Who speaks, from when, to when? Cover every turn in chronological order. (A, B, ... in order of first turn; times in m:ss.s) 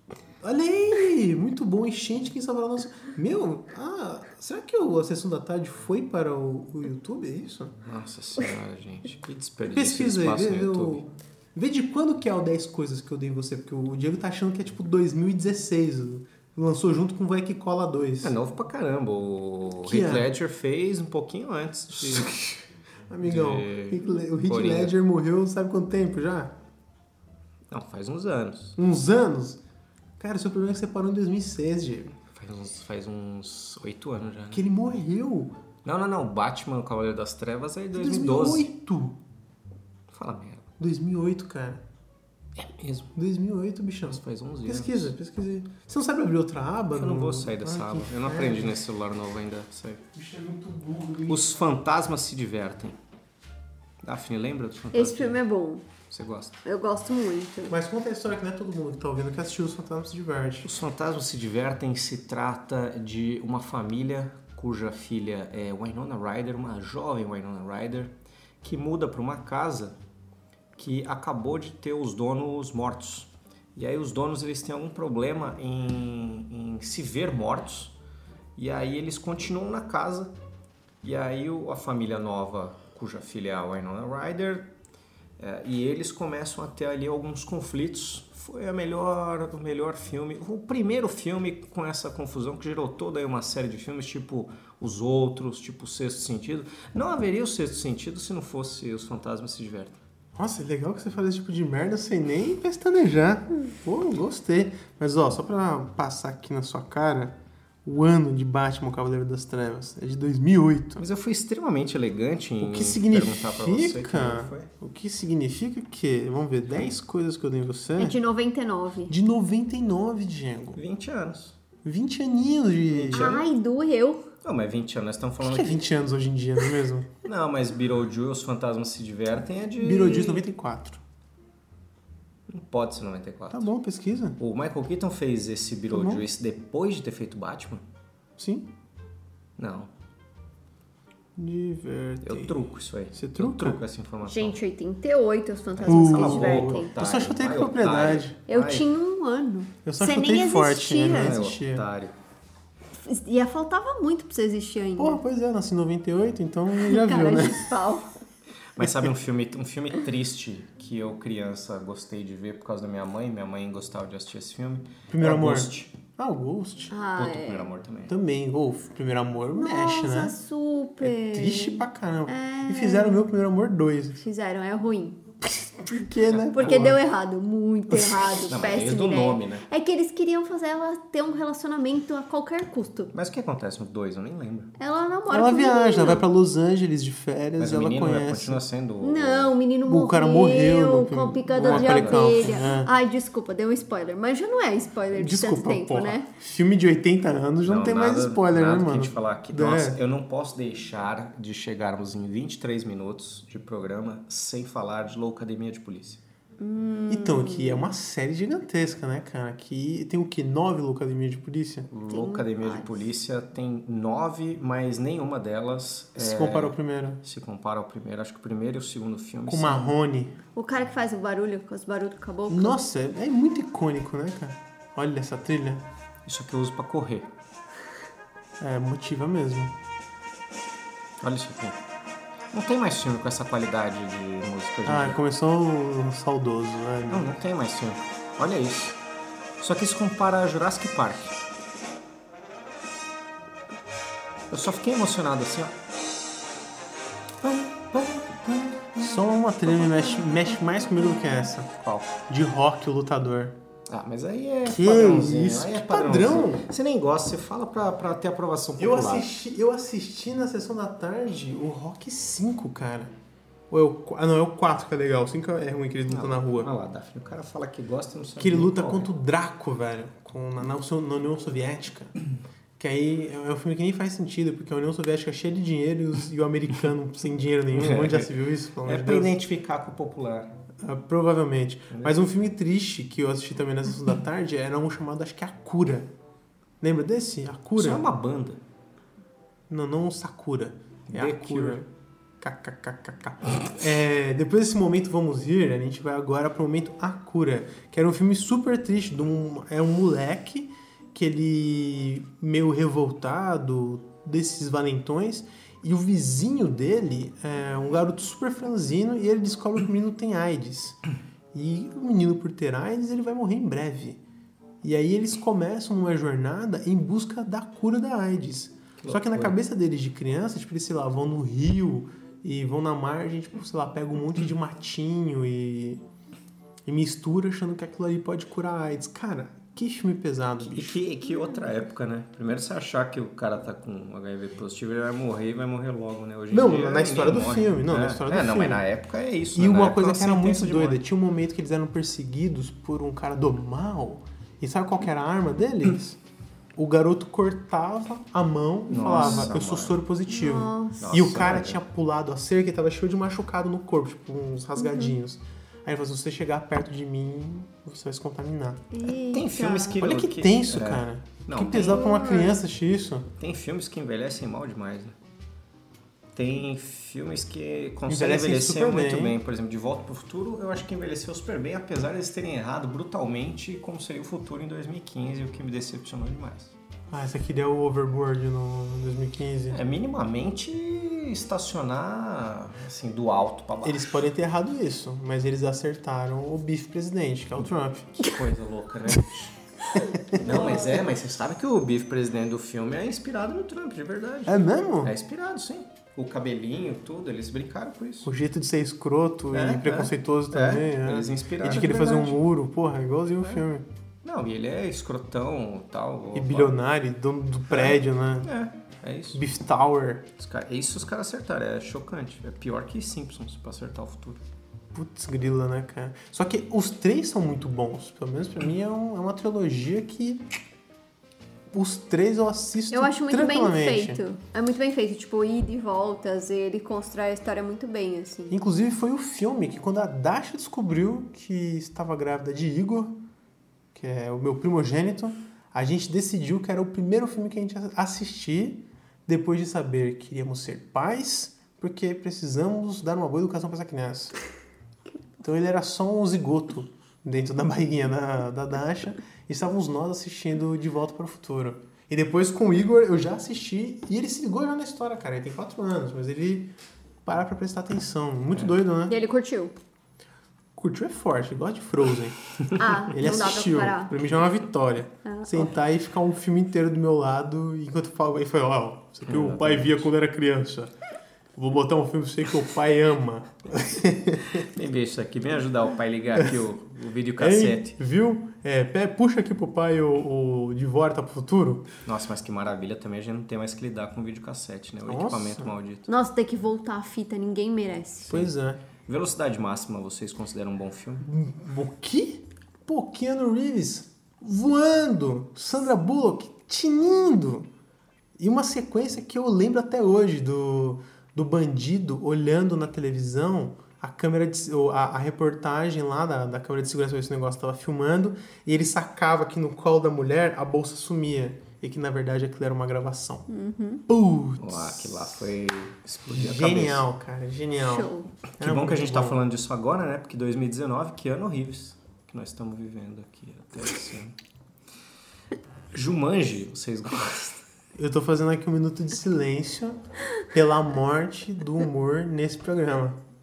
0:00.4-0:07.8 A
0:07.8-0:11.0 B
0:09.6-0:18.4 A
0:18.2-0:22.3 B
0:19.8-0:20.3 A
0:21.9-0:26.5 A
0:23.2-0:24.9 B
0:27.7-0:28.8 B
0:28.8-0:29.6 A
0:30.2-0:32.2 A
0:32.2-0:34.6 B
0:34.5-0:35.5 A
0:35.8-0:38.7 B
0:37.9-0:39.2 A
0:40.1-0:40.7 B
0:40.8-0:41.8 A
0:42.6-0:43.1 B
0:43.1-0:48.8 A
0:44.1-0:45.1 B
0:46.9-0:50.0 B
0:50.1-0:51.5 A
0:51.3-0:53.0 B
0:54.0-0:55.4 B
0:54.9-0:55.8 C
0:56.1-0:56.6 B
0:56.6-0:57.8 C
0:57.7-1:00.7 A
1:00.6-1:10.0 B
1:10.8-1:17.9 B
1:18.6-1:20.3 B
1:21.0-1:24.7 B
1:25.4-1:40.0 B
1:40.4-1:47.3 A
1:47.8-1:51.0 A
1:51.0-1:54.7 B
1:52.6-1:58.1 A
1:58.0-1:59.1 C
1:59.1-2:00.8 A
2:00.8-2:01.6 B
2:01.8-2:03.3 A
2:02.9-2:03.5 B
2:03.1-2:04.3 C
2:04.4-2:05.9 B
2:05.4-2:07.1 A
2:07.2-2:10.4 B
2:09.8-2:11.0 A
2:12.5-2:13.7 B
2:13.5-2:14.4 A
2:14.4-2:17.8 B
2:15.9-2:16.3 A
2:18.4-2:18.7 A
2:19.6-2:19.9 B
2:21.4-2:23.8 A
2:22.2-2:24.6 B
2:24.2-2:26.9 C
2:25.7-2:28.9 B
2:25.9-2:28.4 A
2:28.5-2:31.4 C
2:29.8-2:31.8 A
2:31.1-2:32.2 B
2:33.0-2:35.2 C
2:35.0-2:37.7 A
2:36.8-2:38.1 C
2:38.8-2:45.9 B
2:38.8-2:39.1 A
2:45.1-2:47.0 A
2:46.9-2:47.7 C
2:47.1-2:48.1 B
2:48.1-2:50.4 A
2:49.6-2:53.3 C
2:51.0-2:54.2 A
2:54.2-2:55.2 C
2:55.8-2:57.0 A
2:56.5-3:03.1 C
2:58.0-2:58.4 A
2:58.5-2:59.6 B
3:03.1-3:04.7 B
3:04.8-3:06.3 C
3:05.3-3:08.6 A
3:07.6-3:09.6 B
3:09.0-3:16.3 C
3:09.8-3:12.9 A
3:11.6-3:12.5 B
3:15.1-3:20.0 A
3:17.6-3:26.2 B
3:26.6-3:27.9 C
3:27.1-3:31.9 A
3:31.9-3:40.0 B
3:32.1-3:32.9 C
3:36.2-3:37.2 A
3:39.5-3:40.4 A
3:40.6-3:42.8 C
3:42.5-3:45.8 A
3:46.3-3:47.3 B
3:48.6-3:49.7 A
3:51.2-3:51.8 B
3:52.5-3:55.2 B
3:54.8-3:57.4 A
3:57.1-3:59.0 B
3:59.6-4:01.4 B
4:04.5-4:05.8 B
4:07.4-4:08.5 B
4:08.9-4:11.7 A
4:11.8-4:12.2 B
4:12.3-4:13.6 A
4:13.9-4:19.3 B
4:14.6-4:16.6 A
4:18.8-4:23.1 A
4:23.7-4:26.7 A
4:26.1-4:29.1 B
4:28.4-4:32.1 A
4:32.8-4:39.4 A
4:37.7-4:38.3 B
4:38.8-4:40.5 B
4:40.8-4:46.1 A
4:41.9-4:42.2 B
4:46.8-4:48.0 A
4:47.8-4:48.6 B
4:49.7-4:51.9 A
4:51.1-4:51.8 B
4:52.4-5:11.0 A
5:11.5-5:14.2 A
5:14.8-5:26.0 A
5:19.0-5:19.6 B
5:26.9-5:31.0 A
5:30.6-5:41.0 B
5:36.5-5:38.9 A
5:39.5-5:46.2 A
5:46.8-5:58.9 A
5:48.9-5:50.0 B
5:49.1-5:49.4 C
5:50.3-5:51.0 C
5:51.0-5:51.8 B
5:54.8-5:55.1 C
5:58.9-6:00.0 C
5:59.3-6:02.3 B
6:00.0-6:03.3 A
6:01.9-6:02.6 C
6:03.4-6:05.2 B
6:06.3-6:16.7 B
6:08.1-6:09.4 A
6:17.1-6:19.8 A
6:19.7-6:24.2 B
6:23.8-6:28.3 A
6:28.2-6:29.6 B
6:29.9-6:30.6 A
6:30.1-6:31.0 C
6:30.3-6:38.3 B
6:34.4-6:35.1 A
6:38.2-6:43.8 A
6:39.5-6:42.4 B
6:44.2-6:46.8 B
6:46.3-6:48.5 A
6:47.7-6:49.4 B
6:49.3-6:50.3 A
6:50.4-6:54.4 B
6:54.9-7:00.4 A
7:01.7-7:04.2 A
7:02.9-7:08.6 C
7:08.5-7:13.1 A
7:13.9-7:24.4 A
7:25.4-7:36.7 A
7:37.2-7:39.1 A
7:39.1-7:39.7 C
7:40.8-7:50.9 A
7:42.8-7:44.1 C
7:45.2-7:45.7 C
7:49.3-7:50.1 B
7:51.6-7:54.7 A
7:54.6-7:57.9 B
7:57.4-8:01.9 A
8:02.0-8:06.1 B
8:05.1-8:05.8 A
8:06.1-8:08.3 C
8:08.3-8:08.8 A
8:09.1-8:11.3 B
8:11.2-8:17.7 A
8:18.4-8:33.5 A
8:33.5-8:34.0 C
8:34.1-8:35.5 A
8:34.6-8:37.0 B
8:36.3-8:39.4 A
8:37.8-8:38.3 C
8:38.6-8:44.4 B
8:45.9-8:47.6 B
8:48.0-8:53.2 A